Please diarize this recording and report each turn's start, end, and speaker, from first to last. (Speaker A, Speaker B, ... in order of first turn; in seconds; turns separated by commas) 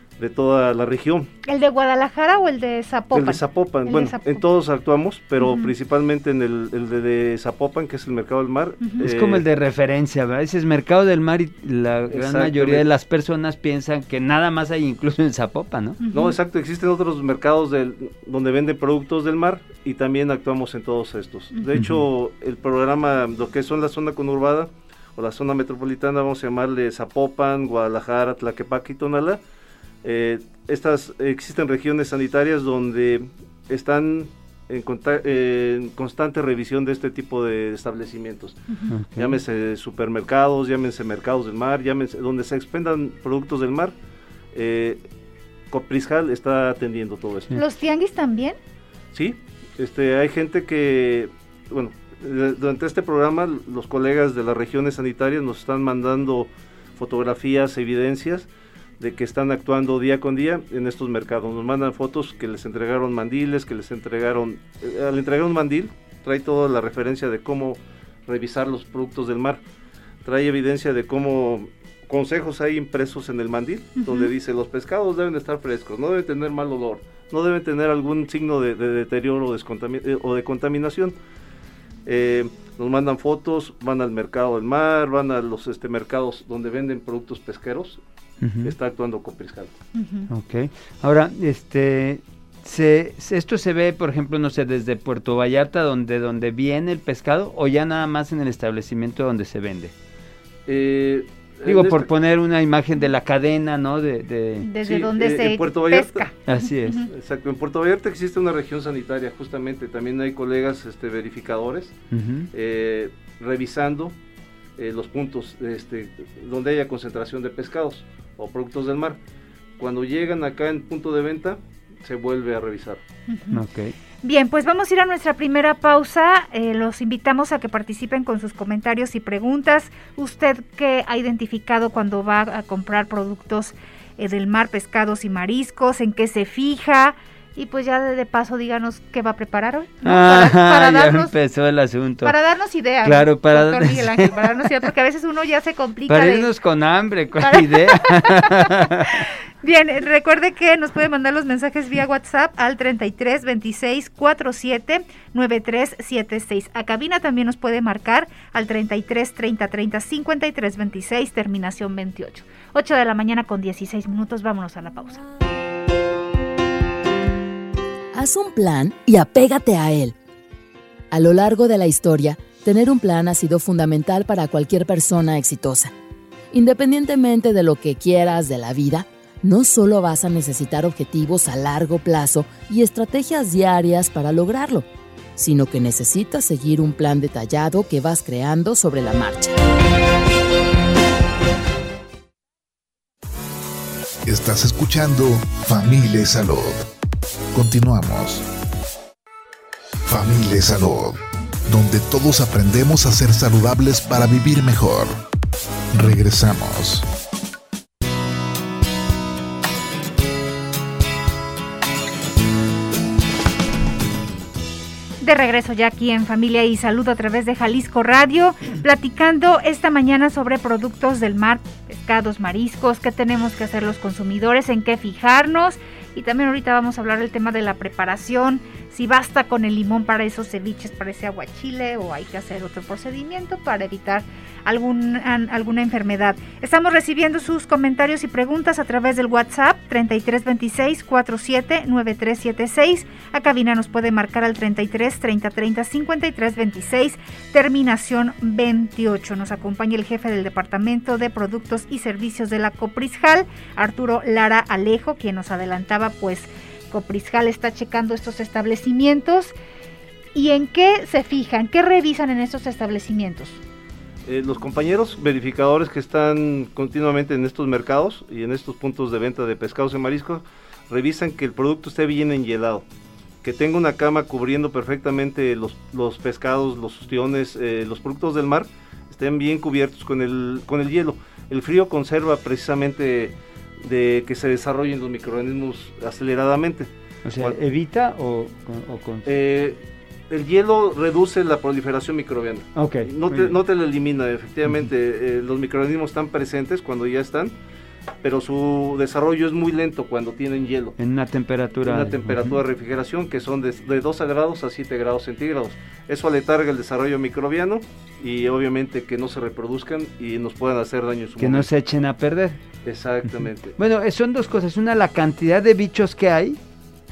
Speaker A: 0.2-1.3, Speaker B: 1.5-4.4, Speaker A: 3.1-9.5, Speaker B: 5.4-5.7, Speaker C: 9.0-16.0, Speaker A: 12.1-12.8, Speaker B: 16.0-16.4, Speaker A: 16.1-29.4, Speaker C: 21.8-22.1, Speaker A: 30.0-38.6, Speaker C: 38.9-39.4, Speaker A: 39.2-44.0, Speaker A: 44.5-45.0, Speaker A: 45.7-47.5, Speaker B: 47.5-48.6, Speaker A: 49.1-58.5, Speaker A: 59.0-69.6, Speaker A: 70.2-81.2, Speaker B: 74.0-74.3, Speaker A: 82.1-88.0, Speaker C: 88.4-88.8, Speaker A: 88.6-89.7, Speaker B: 90.0-90.3, Speaker C: 90.3-99.9, Speaker A: 100.7-102.1, Speaker C: 101.7-104.7, Speaker B: 104.6-107.1, Speaker A: 104.8-106.3, Speaker C: 106.5-107.0, Speaker A: 107.1-112.0, Speaker C: 112.1-112.5, Speaker A: 112.5-114.2, Speaker A: 114.8-119.2, Speaker A: 119.8-123.0, Speaker B: 123.3-123.6, Speaker C: 123.5-123.9, Speaker B: 124.2-141.3, Speaker C: 140.1-142.4, Speaker B: 142.2-146.5, Speaker C: 143.0-144.5, Speaker C: 146.1-149.2, Speaker B: 147.4-165.2, Speaker D: 168.1-170.2, Speaker D: 171.1-175.9, Speaker D: 176.5-189.6, Speaker E: 194.3-196.8, Speaker E: 197.5-198.4, Speaker E: 200.1-205.2, Speaker E: 205.9-207.1, Speaker B: 215.2-259.5, Speaker B: 260.3-263.6, Speaker A: 264.3-272.9, Speaker A: 273.4-287.6, Speaker C: 287.2-289.3, Speaker A: 289.2-297.6, Speaker C: 292.8-293.6, Speaker A: 298.2-301.0, Speaker C: 301.0-302.6, Speaker A: 301.8-311.7, Speaker C: 311.4-312.6, Speaker A: 312.9-313.8, Speaker C: 313.3-316.6